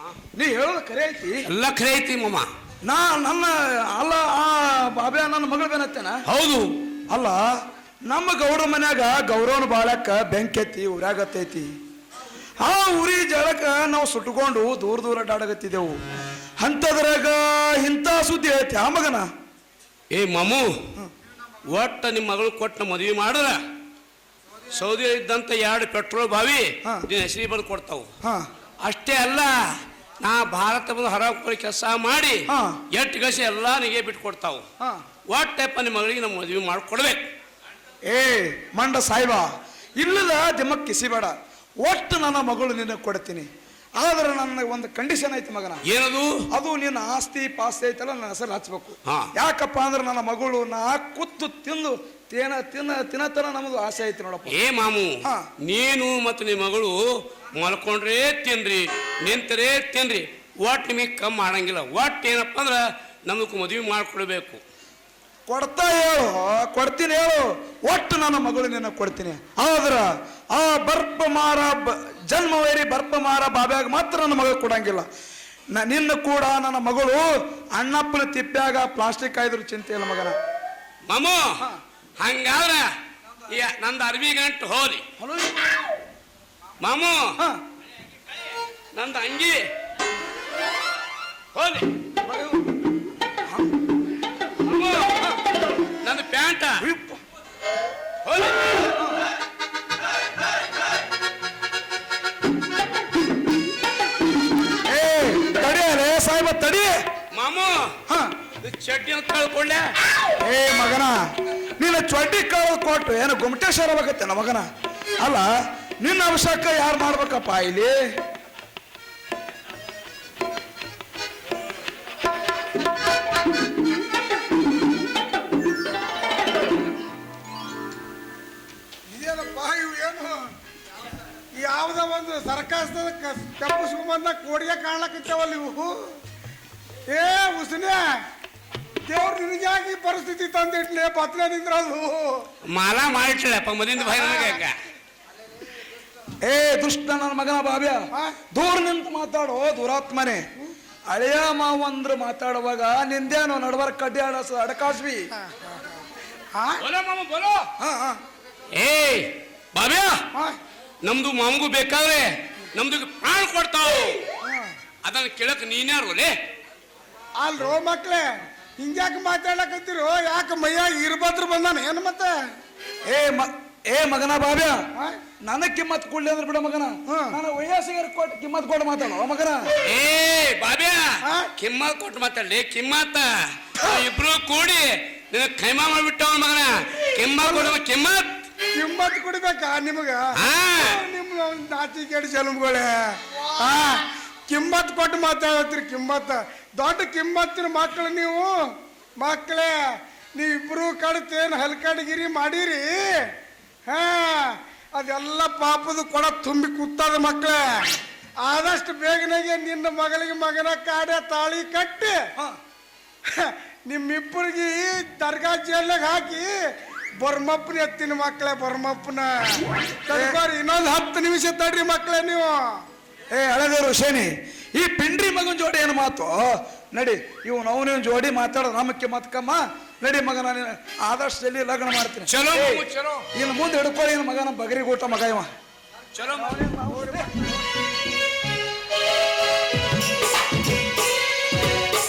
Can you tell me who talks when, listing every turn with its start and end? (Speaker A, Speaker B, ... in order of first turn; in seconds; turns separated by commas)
Speaker A: 0.3-1.4, Speaker B: 1.5-2.5, Speaker A: 2.8-6.2, Speaker B: 6.3-6.8, Speaker A: 7.1-7.5, Speaker A: 8.1-11.7, Speaker A: 12.6-16.0, Speaker A: 16.6-19.3, Speaker B: 20.1-20.8, Speaker B: 21.7-23.6, Speaker B: 24.7-28.1, Speaker A: 28.2-28.5, Speaker B: 28.8-29.6, Speaker B: 30.2-34.6, Speaker A: 32.5-32.8, Speaker B: 35.3-37.2, Speaker A: 38.0-45.8, Speaker B: 45.9-46.4, Speaker A: 46.5-54.6, Speaker B: 54.5-64.6, Speaker A: 65.5-75.1, Speaker A: 75.7-80.4, Speaker B: 81.1-81.6, Speaker B: 82.2-82.9, Speaker B: 83.5-85.0, Speaker A: 85.2-85.8, Speaker B: 86.8-87.3, Speaker B: 88.9-89.6, Speaker B: 91.5-91.9, Speaker A: 92.2-92.7, Speaker B: 94.6-95.4, Speaker B: 96.0-96.8, Speaker A: 96.8-97.2, Speaker B: 98.2-98.9, Speaker A: 104.8-107.0, Speaker B: 107.3-107.9, Speaker B: 108.6-109.9, Speaker A: 110.4-111.2, Speaker A: 111.8-114.7, Speaker A: 115.2-118.1, Speaker C: 129.1-130.5, Speaker C: 131.6-136.2, Speaker C: 137.1-138.0, Speaker C: 139.1-142.4, Speaker B: 142.7-144.7, Speaker C: 144.1-144.6, Speaker A: 146.4-150.5, Speaker C: 148.1-148.4, Speaker A: 151.1-155.3, Speaker C: 156.5-156.8, Speaker B: 156.8-157.7, Speaker A: 157.8-158.2, Speaker B: 158.7-160.2, Speaker B: 161.0-164.2, Speaker B: 165.0-166.3, Speaker C: 167.4-172.3, Speaker A: 173.1-174.8, Speaker A: 175.4-179.7, Speaker C: 177.1-177.4, Speaker B: 179.8-188.4, Speaker C: 181.2-181.5, Speaker C: 188.8-199.7, Speaker B: 190.4-191.0, Speaker C: 200.3-203.1, Speaker C: 203.9-207.8, Speaker C: 208.4-212.2, Speaker C: 213.3-216.5, Speaker C: 217.2-222.8, Speaker A: 220.1-220.3, Speaker A: 223.3-235.5, Speaker B: 232.3-233.3, Speaker B: 236.1-236.6, Speaker A: 236.3-237.5